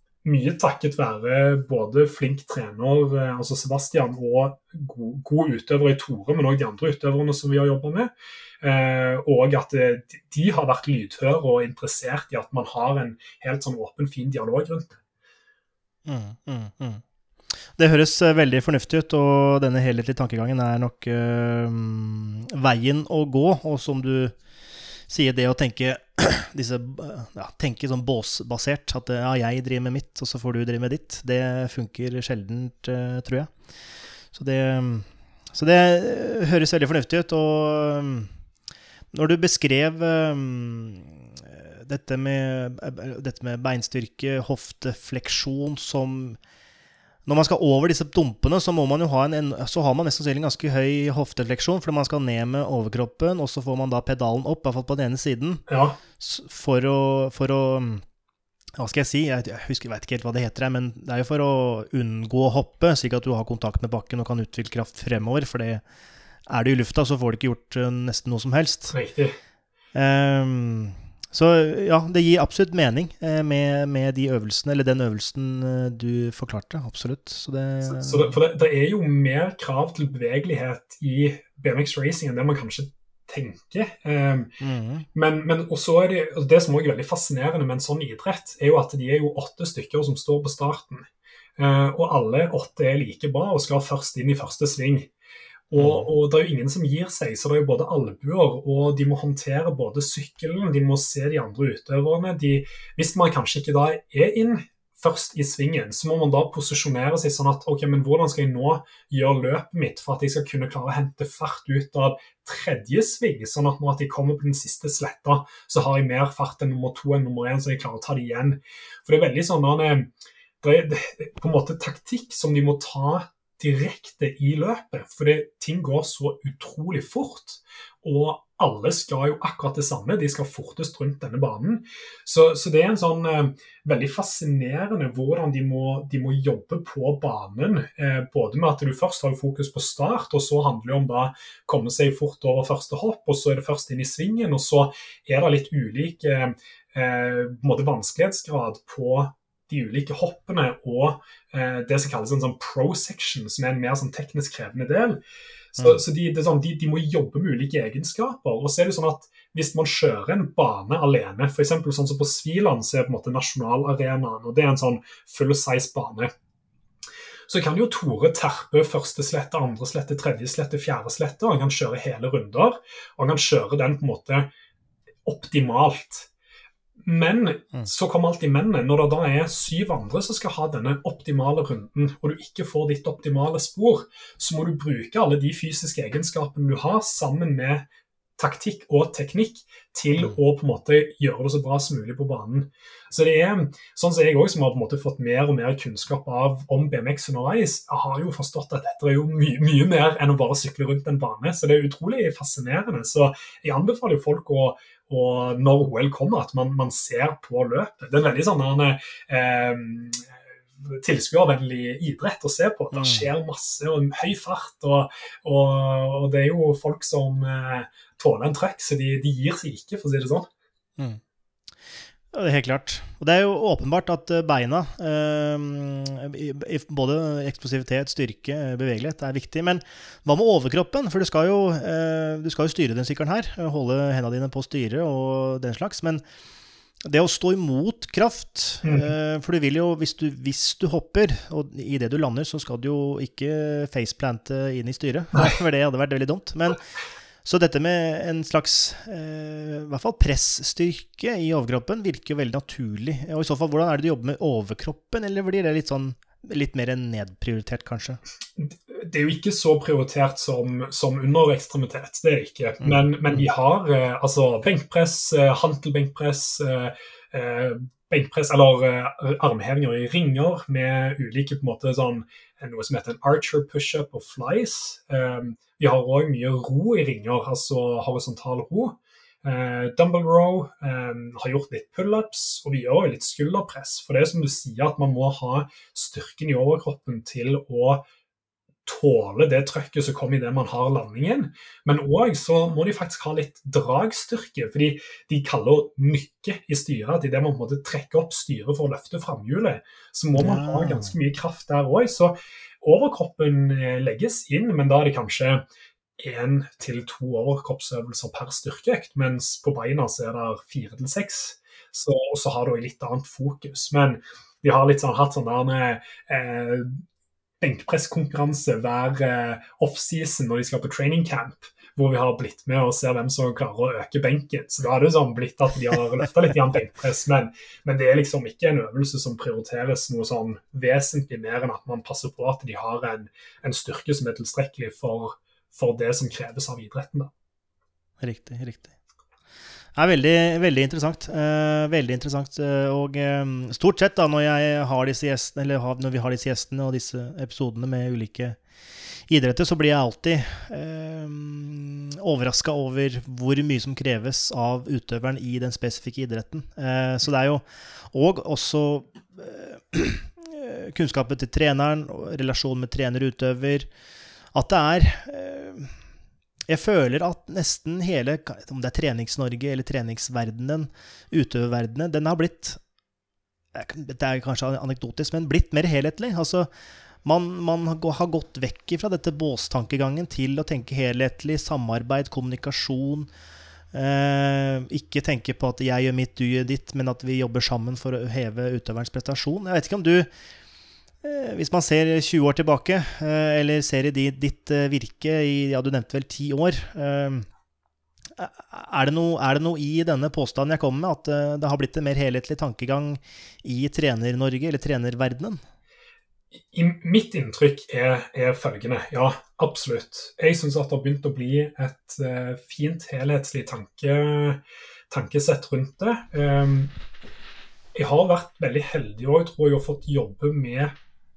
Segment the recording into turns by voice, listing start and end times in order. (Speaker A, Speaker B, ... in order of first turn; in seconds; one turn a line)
Speaker A: 0.2-15.0
Speaker B: 16.1-17.0
Speaker B: 17.6-24.4
Speaker B: 25.1-33.6
Speaker B: 34.3-38.3
Speaker B: 39.1-46.4
Speaker B: 47.3-55.6
Speaker A: 55.7-56.0
Speaker B: 56.2-58.0
Speaker B: 58.8-65.8
Speaker B: 66.5-69.0
Speaker A: 68.9-69.3
Speaker B: 70.0-78.4
Speaker A: 77.8-84.5
Speaker B: 84.6-85.1
Speaker A: 85.1-95.1
Speaker A: 95.7-155.2
Speaker B: 95.8-96.1
Speaker A: 155.7-166.3
Speaker A: 167.5-174.5
Speaker A: 175.2-176.3
Speaker A: 177.0-220.5
Speaker B: 212.9-213.3
Speaker B: 222.3-236.2
Speaker B: 237.1-246.8
Speaker A: 238.8-239.1
Speaker B: 247.4-258.2
Speaker A: 258.6-288.1
Speaker B: 262.8-263.5
Speaker A: 288.9-305.7
Speaker B: 300.4-301.1
Speaker A: 306.2-317.0
Speaker A: 317.6-337.3
Speaker B: 338.2-338.9
Speaker B: 339.9-348.6
Speaker B: 349.3-363.9
Speaker B: 364.5-366.0
Speaker B: 366.7-372.8
Speaker B: 373.7-376.7
Speaker B: 377.2-383.3
Speaker B: 383.9-390.3
Speaker B: 391.2-397.5
Speaker B: 398.4-405.6
Speaker A: 406.7-416.9
Speaker A: 417.9-421.0